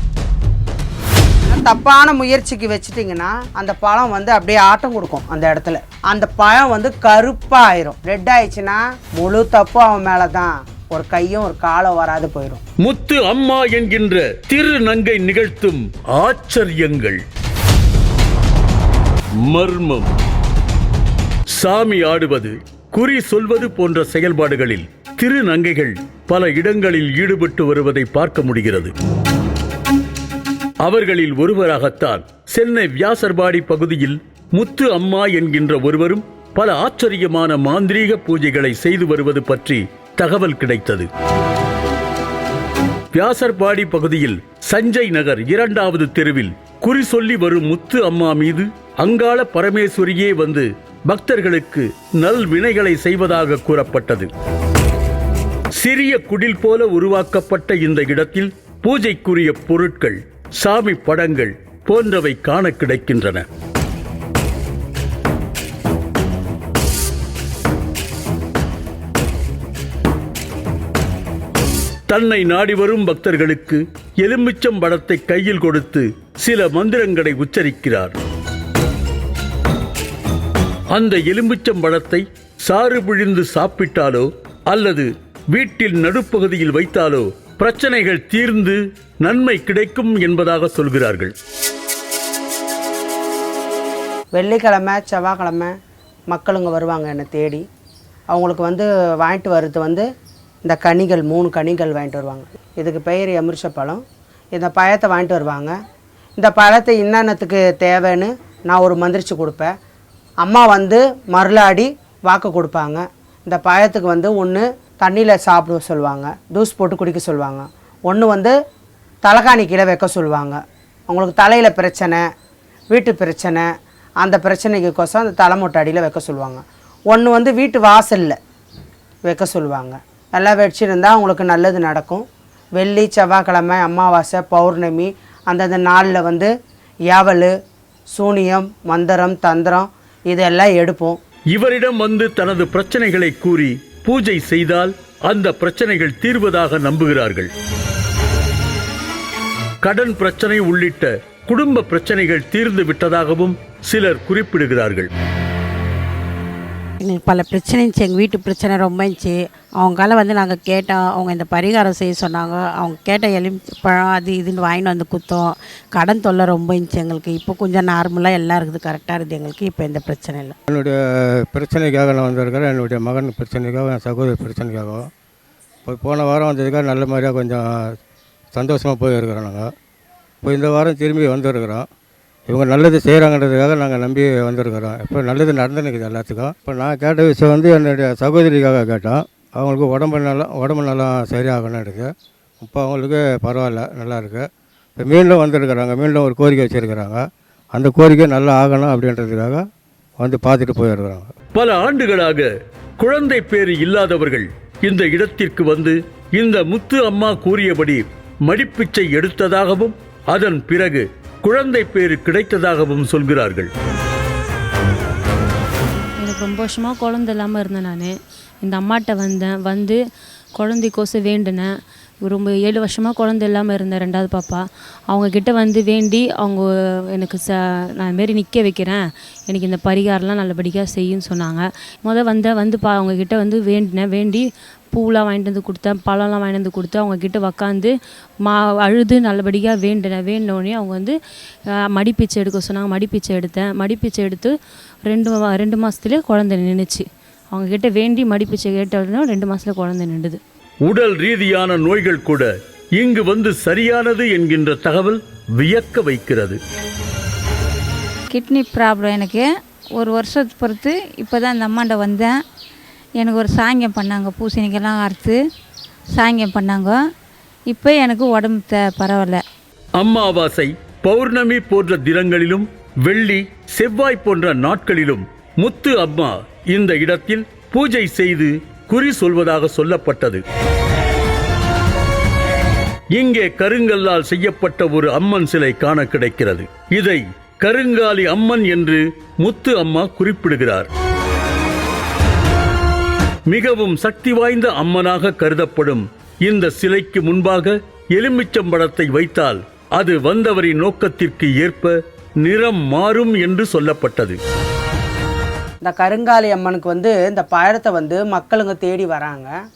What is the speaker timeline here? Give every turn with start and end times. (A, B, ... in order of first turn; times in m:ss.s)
0:01.5-0:12.6 A
0:12.8-0:17.2 B
0:19.4-0:20.1 B
0:21.5-0:28.9 B
0:30.8-0:41.1 B
0:43.1-0:54.3 B
0:55.8-1:03.4 B
1:12.1-1:18.2 B
1:20.9-1:31.3 B
1:34.3-1:35.7 A
1:36.3-1:37.6 A
1:38.3-1:40.0 A
1:40.6-1:45.7 A
1:46.4-1:49.7 A
1:50.4-1:58.5 A
1:59.2-2:02.2 A
2:02.9-2:03.7 A
2:04.2-2:08.4 A
2:09.2-2:16.5 A
2:17.1-2:17.5 A
2:18.1-2:21.2 A
2:21.5-2:27.5 B
2:29.8-2:35.1 B
2:37.0-2:50.5 C
2:50.7-2:55.1 D
2:55.8-2:57.9 D
2:58.5-2:59.7 D
3:00.4-3:01.8 D
3:02.5-3:19.6 D
3:20.2-3:21.3 D
3:21.5-3:33.7 B
3:36.2-3:40.0 E
3:40.6-3:41.7 E
3:42.2-4:01.1 E
4:01.9-4:04.5 E
4:05.1-4:10.4 E
4:10.8-4:16.6 B
4:18.3-4:22.4 F
4:23.2-4:25.4 F
4:26.1-4:27.0 F
4:27.7-4:29.4 F
4:30.0-4:40.4 B
4:43.1-4:50.9 B
4:53.5-5:04.4 B
5:05.8-5:09.5 A